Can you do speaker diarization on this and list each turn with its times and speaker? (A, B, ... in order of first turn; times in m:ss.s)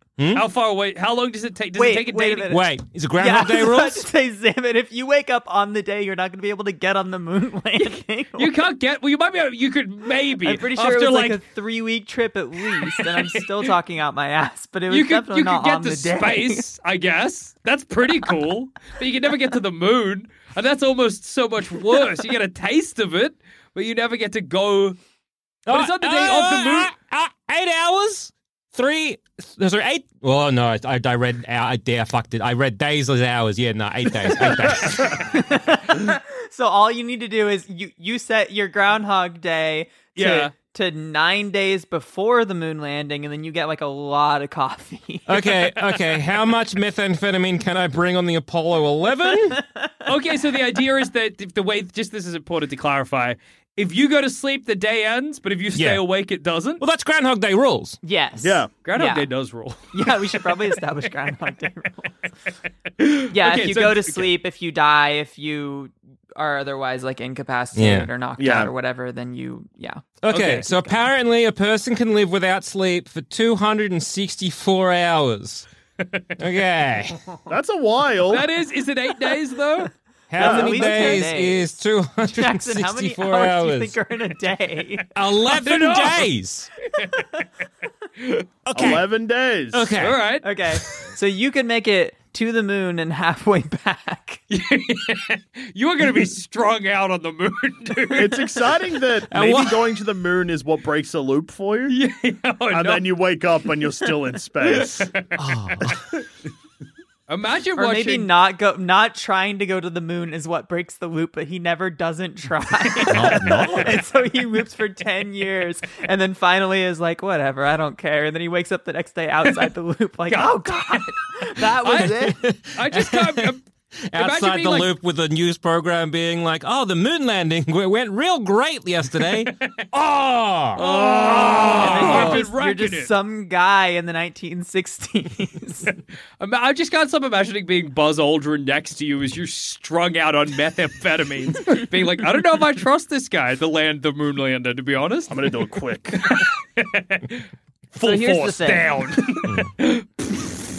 0:00.2-0:00.4 A
0:00.3-0:02.6 B
0:01.8-0:08.6 C
0:02.5-0:04.0 A
0:07.8-0:11.4 B
0:10.4-0:16.7 C
0:12.8-0:13.5 B
0:14.9-0:25.0 B
0:25.7-0:26.9 B
0:25.7-0:35.4 A
0:35.2-0:45.8 C
0:40.2-0:40.5 B
0:45.3-0:49.6 A
0:49.5-0:49.9 C
0:50.0-0:56.8 B
0:55.7-0:56.0 A
0:56.8-0:58.0 A
0:58.0-0:59.3 C
0:58.4-0:58.7 D
0:58.8-1:00.3 B
0:59.9-1:02.2 C
1:03.0-1:04.3 B
1:03.3-1:10.9 C
1:07.7-1:08.1 A
1:08.4-1:08.7 D
1:10.2-1:15.6 A
1:10.3-1:10.6 B
1:16.4-1:17.2 A
1:17.5-1:18.5 D
1:18.3-1:19.9 B
1:20.3-1:24.0 A
1:20.4-1:21.0 D
1:20.4-1:21.7 C
1:22.2-1:25.0 C
1:25.1-1:26.7 A
1:25.4-1:26.3 B
1:26.9-1:27.4 B
1:28.2-1:28.5 B
1:28.6-1:29.0 A
1:28.7-1:29.9 D
1:29.7-1:30.2 A
1:30.0-1:30.4 B
1:30.4-1:34.4 C
1:34.5-1:38.4 B
1:38.1-1:42.0 D
1:39.3-1:39.8 A
1:41.9-1:43.1 B
1:42.7-1:45.2 D
1:45.4-1:46.1 A
1:47.3-1:48.3 B
1:47.8-2:02.4 C
1:53.0-1:54.0 A
2:00.3-2:03.6 B
2:01.9-2:03.5 A
2:04.1-2:12.4 A
2:04.1-2:04.9 B
2:09.4-2:09.8 B
2:10.8-2:13.1 B
2:11.2-2:11.5 D
2:11.6-2:15.9 C
2:16.4-2:25.5 B
2:25.3-2:26.3 D
2:26.2-2:30.0 B
2:28.0-2:29.0 C